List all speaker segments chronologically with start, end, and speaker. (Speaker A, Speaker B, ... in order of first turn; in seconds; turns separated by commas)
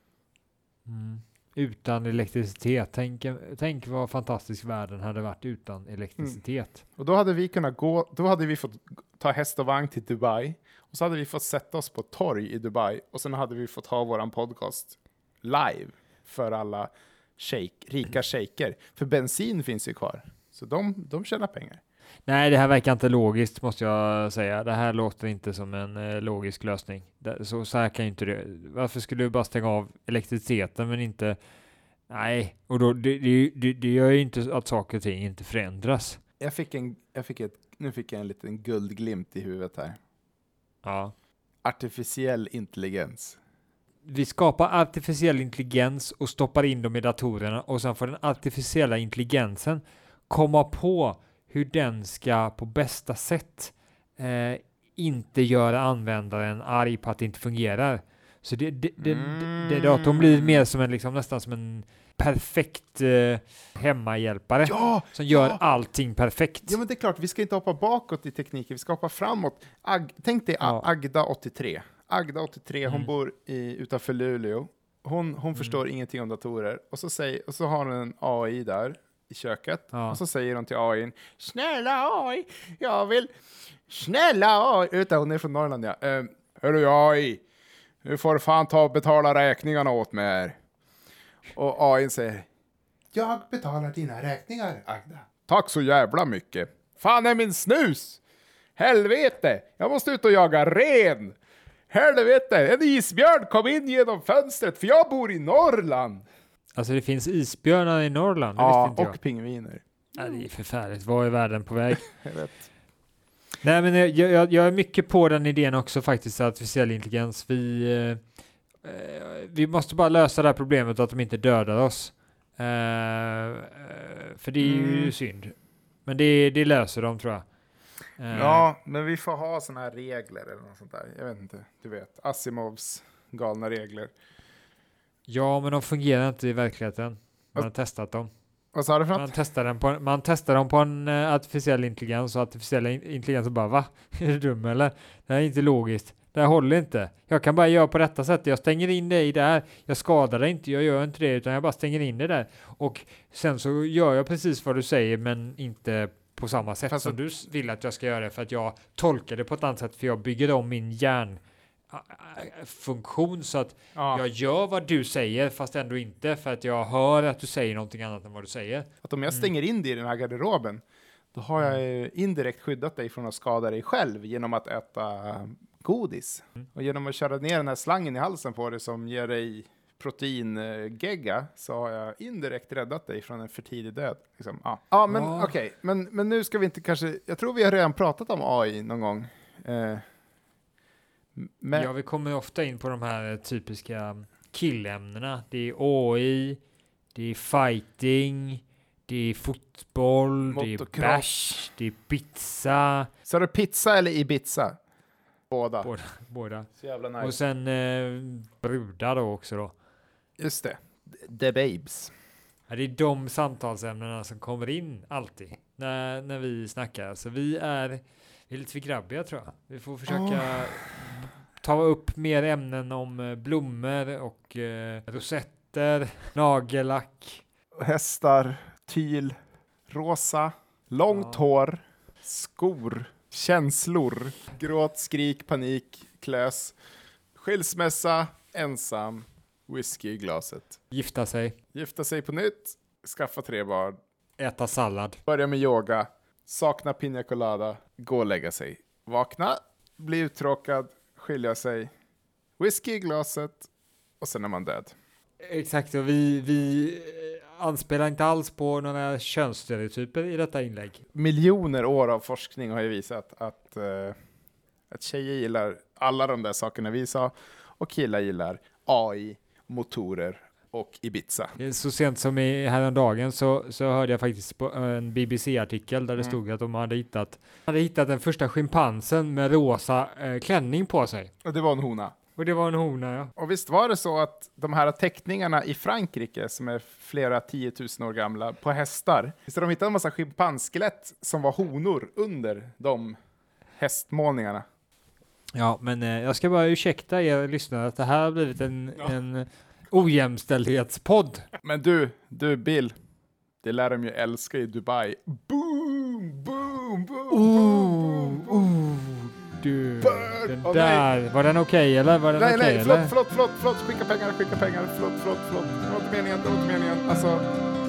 Speaker A: 0.9-6.8, Speaker B: 7.0-21.8, Speaker A: 22.3-31.4, Speaker A: 32.1-36.2, Speaker B: 36.4-40.0, Speaker A: 40.8-41.1, Speaker B: 41.6-43.4, Speaker A: 44.0-66.8, Speaker B: 59.0-60.7, Speaker B: 64.7-65.6, Speaker B: 66.7-83.3, Speaker A: 70.6-70.9, Speaker A: 79.9-80.2, Speaker B: 83.9-87.4, Speaker B: 88.0-90.6, Speaker B: 91.5-92.5, Speaker B: 93.1-98.2, Speaker B: 98.8-101.4, Speaker B: 101.9-106.3, Speaker A: 106.8-109.2, Speaker B: 108.6-110.3, Speaker A: 110.2-112.1, Speaker B: 112.2-112.7, Speaker A: 113.6-118.2, Speaker A: 118.8-125.5, Speaker B: 124.6-125.1, Speaker A: 126.1-127.5, Speaker A: 128.2-128.7, Speaker B: 128.3-134.1, Speaker A: 135.3-138.3, Speaker B: 138.8-139.3, Speaker A: 139.1-169.5, Speaker B: 156.9-157.2, Speaker B: 163.9-164.2, Speaker B: 169.0-170.8, Speaker B: 171.3-190.1, Speaker A: 185.1-185.5, Speaker B: 191.4-191.9, Speaker A: 191.7-196.6, Speaker A: 197.1-203.1, Speaker B: 200.5-201.3, Speaker B: 203.3-204.8, Speaker B: 205.5-205.9, Speaker A: 205.8-206.7, Speaker B: 206.8-207.4, Speaker A: 207.2-209.8, Speaker B: 210.4-212.1, Speaker A: 212.7-227.4, Speaker B: 220.1-220.9, Speaker B: 227.8-229.4, Speaker B: 229.9-236.8, Speaker A: 231.1-231.4, Speaker B: 237.3-240.8, Speaker A: 240.9-241.6, Speaker B: 241.7-244.0, Speaker A: 244.4-245.2, Speaker B: 245.3-251.9, Speaker B: 252.6-253.7, Speaker B: 254.2-254.9, Speaker A: 255.4-261.0, Speaker B: 261.1-264.2, Speaker B: 264.9-271.6, Speaker A: 271.6-281.3, Speaker B: 281.4-282.1, Speaker A: 282.4-283.3, Speaker B: 283.4-293.2, Speaker B: 293.8-294.6, Speaker A: 295.6-301.5, Speaker B: 301.6-303.0, Speaker B: 303.6-308.7, Speaker A: 307.3-313.1, Speaker B: 310.0-311.1, Speaker B: 312.4-317.4